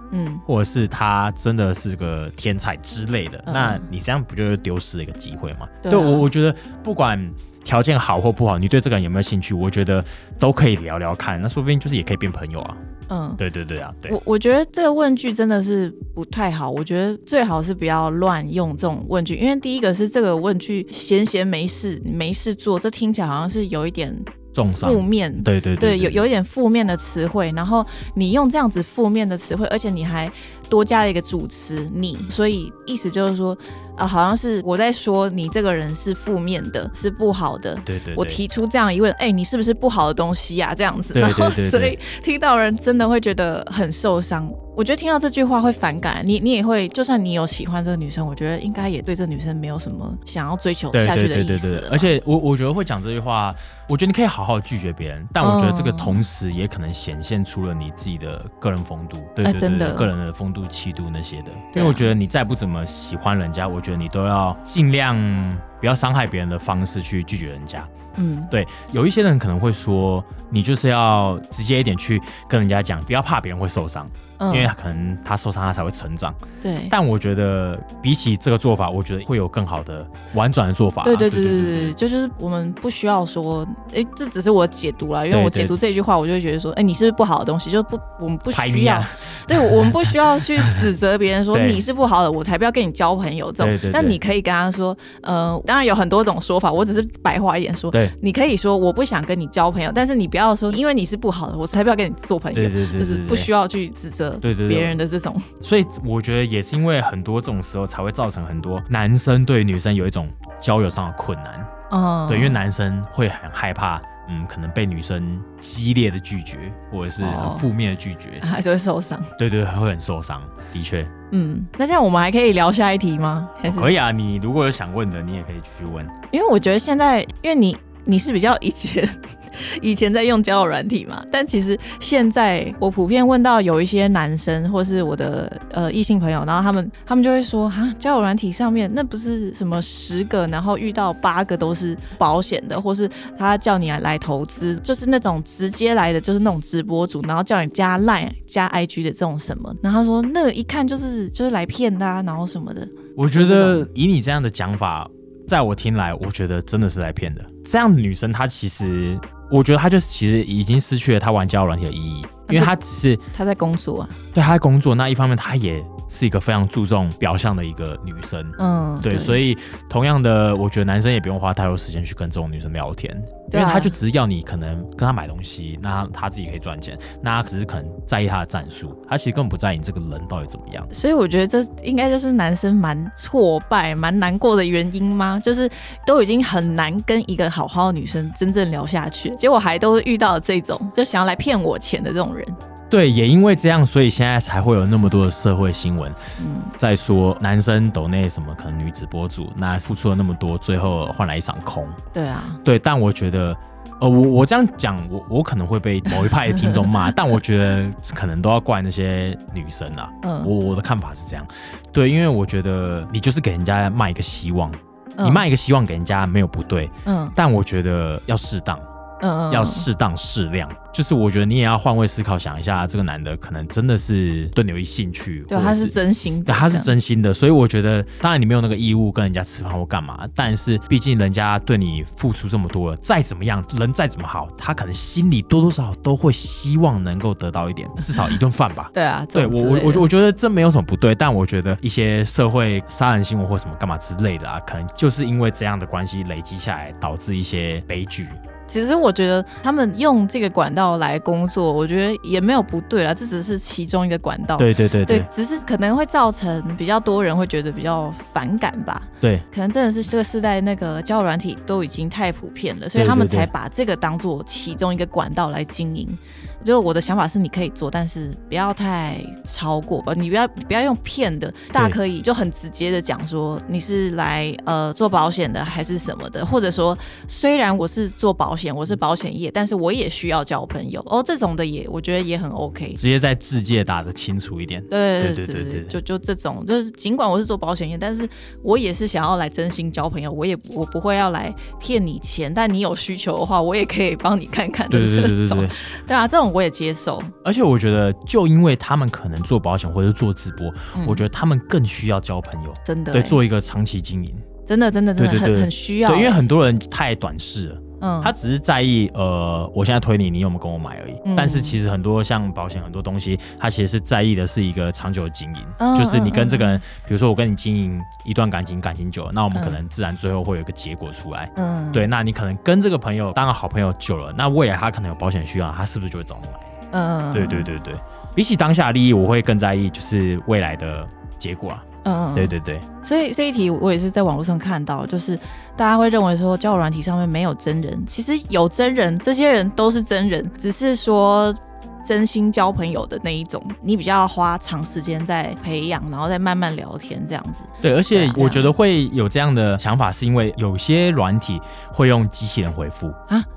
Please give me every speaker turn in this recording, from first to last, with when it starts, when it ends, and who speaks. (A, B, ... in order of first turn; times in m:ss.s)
0:00.1-0:00.4 A
0:00.4-0:12.8 B
0:03.4-0:03.9 A
0:05.8-0:06.2 A
0:13.1-0:13.4 A
0:13.4-0:14.2 B
0:14.1-0:52.1 A
0:24.5-0:26.3 B
0:37.8-0:38.4 B
0:41.1-0:42.0 B
0:50.9-1:07.9 B
0:55.4-0:56.2 A
0:59.4-1:00.1 A
1:01.7-1:02.1 A
1:08.2-1:08.5 A
1:08.5-1:16.4 B
1:14.4-1:14.7 A
1:16.6-1:16.9 A
1:16.9-1:21.9 B
1:21.0-1:45.5 A
1:25.3-1:25.8 B
1:28.5-1:30.2 B
1:31.5-1:31.8 B
1:33.6-1:34.2 B
1:42.5-1:43.5 B
1:44.4-1:45.0 B
1:45.6-1:51.7 B
1:51.9-1:52.6 A
1:52.3-1:58.4 B
1:57.2-1:57.6 A
1:58.4-1:59.3 A
1:59.4-2:01.1 B
2:01.3-2:03.9 A
2:03.6-2:06.1 B
2:06.3-2:33.9 A
2:33.2-2:43.2 B
2:42.5-2:42.8 A
2:43.3-2:44.2 A
2:44.3-3:00.9 B
2:48.6-2:49.4 A
2:53.5-2:53.9 A
3:00.9-3:12.6 A
3:12.9-3:16.2 B
3:16.4-3:16.7 A
3:16.8-3:22.0 B
3:22.1-3:22.6 A
3:22.6-3:38.8 B
3:26.4-3:26.9 A
3:30.2-3:30.5 A
3:37.0-3:37.4 A
3:39.2-3:39.9 A
3:39.5-3:45.9 B
3:45.5-3:46.9 A
3:46.4-4:08.4 B
3:58.9-4:00.1 A
4:08.7-4:43.0 A
4:14.6-4:15.3 B
4:22.9-4:23.5 B
4:43.0-4:46.0 B
4:44.9-4:57.3 A
4:54.9-4:55.8 B
4:57.4-5:04.5 B
5:00.9-5:01.3 A
5:02.8-5:03.4 A
5:04.7-5:06.4 A
5:05.2-5:26.8 B
5:08.0-5:08.3 A
5:11.2-5:11.8 A
5:15.8-5:16.8 A
5:19.5-5:19.8 A
5:21.6-5:22.1 A
5:26.9-5:27.7 A
5:27.3-5:32.8 B
5:32.0-5:48.7 A
5:47.8-5:53.2 B